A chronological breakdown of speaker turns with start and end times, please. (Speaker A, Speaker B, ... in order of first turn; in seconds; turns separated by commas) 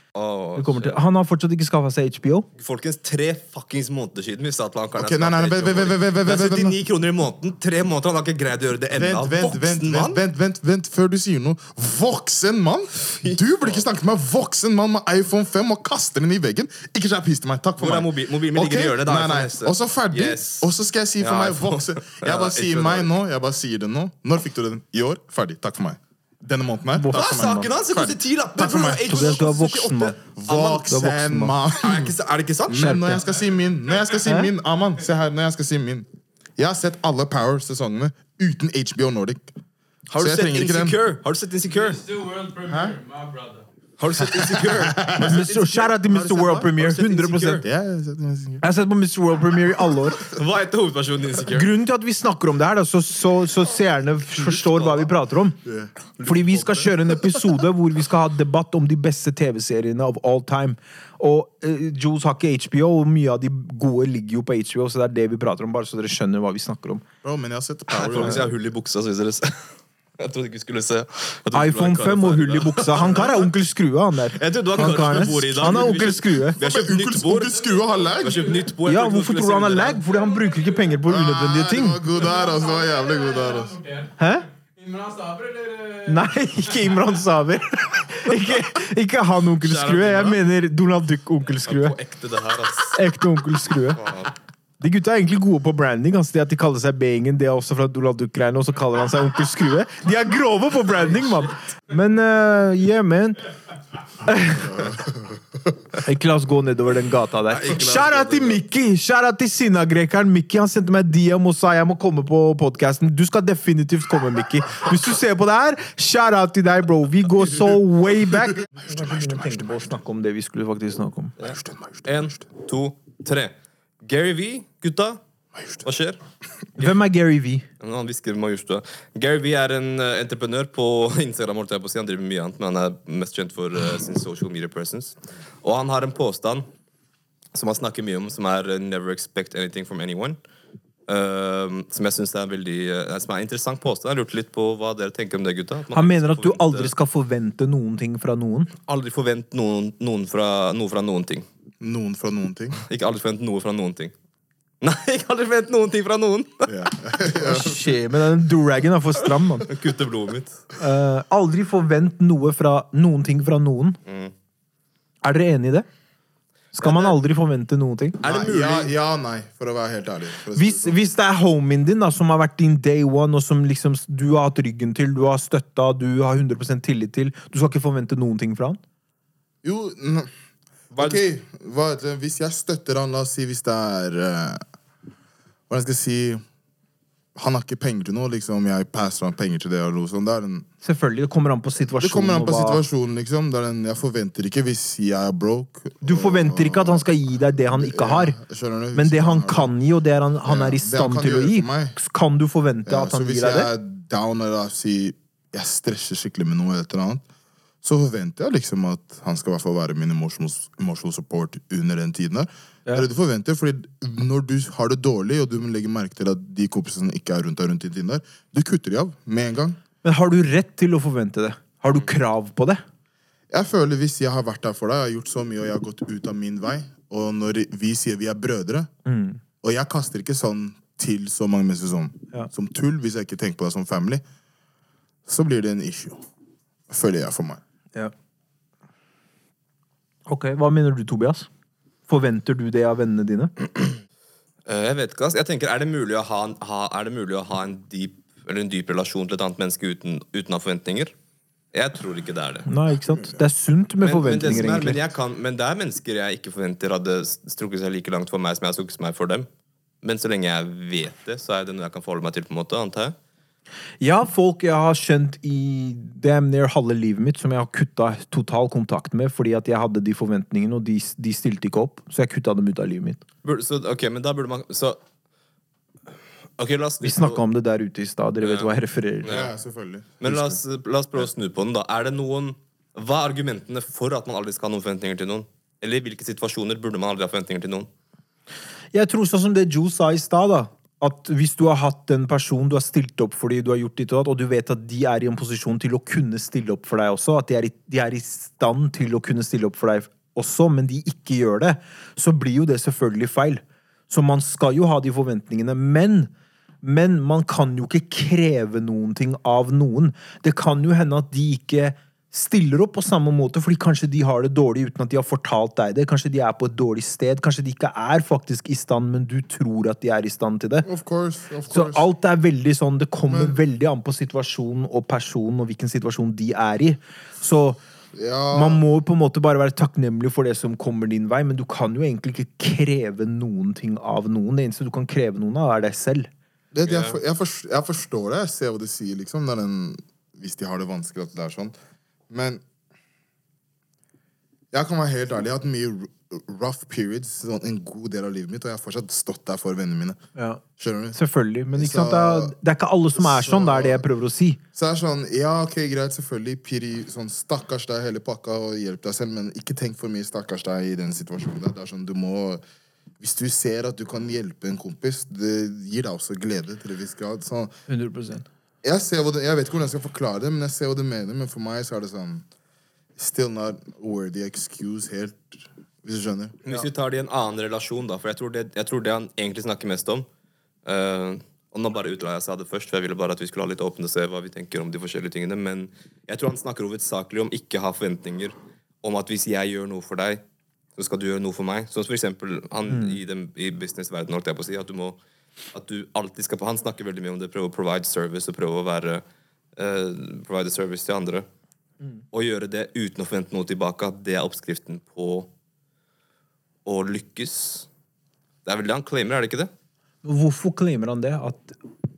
Speaker A: 0.1-1.0, Speaker B: 0.6-2.5, Speaker A: 2.6-10.2, Speaker C: 5.0-6.8, Speaker C: 8.9-29.5, Speaker A: 13.0-13.8, Speaker A: 17.8-20.7, Speaker A: 21.2-23.1, Speaker B: 27.0-27.7, Speaker A: 27.1-30.9, Speaker B: 29.1-30.2, Speaker C: 30.4-32.1, Speaker B: 30.9-31.5, Speaker A: 31.8-33.2, Speaker C: 32.7-39.5, Speaker B: 32.8-33.2, Speaker B: 34.3-34.5, Speaker A: 40.1-42.0, Speaker C: 40.2-41.0, Speaker D: 41.6-43.6, Speaker C: 42.7-43.0, Speaker A: 44.0-45.8, Speaker C: 44.2-46.7, Speaker B: 45.1-47.6, Speaker A: 46.8-47.7, Speaker C: 47.6-48.6, Speaker B: 48.6-50.2, Speaker A: 50.2-51.7, Speaker B: 51.5-55.6, Speaker A: 54.4-55.1, Speaker C: 55.6-57.1, Speaker A: 56.2-56.9, Speaker B: 56.2-67.0, Speaker C: 67.2-68.5, Speaker A: 67.9-69.7, Speaker A: 70.2-73.5, Speaker B: 71.5-76.6, Speaker A: 74.4-77.5, Speaker C: 75.4-76.0, Speaker C: 76.6-78.6, Speaker D: 77.5-78.8, Speaker A: 78.2-80.0, Speaker B: 78.8-82.0, Speaker D: 80.0-81.0, Speaker C: 81.1-83.8, Speaker D: 82.1-84.1, Speaker B: 84.2-84.5, Speaker D: 84.8-87.0, Speaker B: 86.1-92.0, Speaker A: 89.6-90.4, Speaker A: 91.7-93.0, Speaker B: 92.9-94.0, Speaker A: 93.7-94.3, Speaker B: 94.8-103.4, Speaker B: 104.2-104.9, Speaker C: 104.8-105.2, Speaker B: 106.0-121.3, Speaker A: 107.5-108.6, Speaker C: 118.8-120.0, Speaker A: 121.4-125.2, Speaker C: 121.4-122.4, Speaker C: 125.6-125.8, Speaker A: 125.8-126.2, Speaker B: 126.8-127.7, Speaker A: 127.8-136.7, Speaker A: 137.5-140.4, Speaker A: 141.1-146.9, Speaker B: 145.9-148.7, Speaker A: 148.9-151.5, Speaker C: 151.8-152.8, Speaker A: 152.8-154.1, Speaker A: 154.8-156.7, Speaker C: 156.7-158.0, Speaker B: 157.3-159.7, Speaker A: 159.6-160.6, Speaker B: 160.8-164.0, Speaker A: 164.1-164.3, Speaker B: 165.2-165.9, Speaker B: 166.8-168.3, Speaker A: 166.8-167.2, Speaker C: 168.2-171.0, Speaker A: 168.2-168.9, Speaker B: 170.6-178.8, Speaker C: 179.6-180.3, Speaker A: 180.9-181.2, Speaker C: 180.9-184.6, Speaker C: 185.7-186.4, Speaker C: 187.4-190.7, Speaker B: 190.8-192.8, Speaker C: 192.0-197.1, Speaker B: 196.0-198.4, Speaker C: 197.6-199.7, Speaker B: 198.9-203.7, Speaker C: 200.4-202.0, Speaker C: 202.9-207.2, Speaker C: 207.8-219.8, Speaker B: 220.0-222.8, Speaker C: 223.5-228.9, Speaker B: 229.1-229.4, Speaker C: 229.6-234.2, Speaker C: 235.3-236.2, Speaker C: 236.9-237.6, Speaker B: 240.3-241.5, Speaker B: 242.1-243.7, Speaker A: 244.7-251.1, Speaker A: 251.7-252.7, Speaker B: 252.7-255.0, Speaker C: 253.1-253.4, Speaker A: 254.0-259.5, Speaker A: 260.0-263.1, Speaker B: 264.0-273.2, Speaker A: 273.4-275.0, Speaker A: 276.6-277.4, Speaker B: 277.0-279.3, Speaker A: 278.4-279.5, Speaker C: 279.3-280.6, Speaker A: 280.2-287.9, Speaker B: 288.9-306.3, Speaker B: 306.8-320.9, Speaker C: 320.8-322.1, Speaker B: 321.7-327.8, Speaker C: 323.3-323.6, Speaker C: 328.1-328.8, Speaker B: 328.5-336.3, Speaker C: 336.7-341.7, Speaker A: 336.9-337.2, Speaker C: 342.3-342.6, Speaker C: 344.7-350.2, Speaker B: 350.4-350.6, Speaker C: 350.8-351.2, Speaker B: 351.1-354.6, Speaker C: 351.7-352.6, Speaker C: 353.2-354.0, Speaker C: 354.8-362.6, Speaker C: 363.2-367.7, Speaker B: 367.9-368.5, Speaker C: 368.8-372.4, Speaker C: 373.2-376.6, Speaker A: 376.6-380.3, Speaker A: 380.9-390.4, Speaker A: 391.0-395.2, Speaker B: 392.9-393.2, Speaker A: 395.7-399.2, Speaker A: 399.8-401.5, Speaker A: 402.3-405.5, Speaker A: 406.9-407.9, Speaker A: 408.6-409.7, Speaker B: 410.2-411.8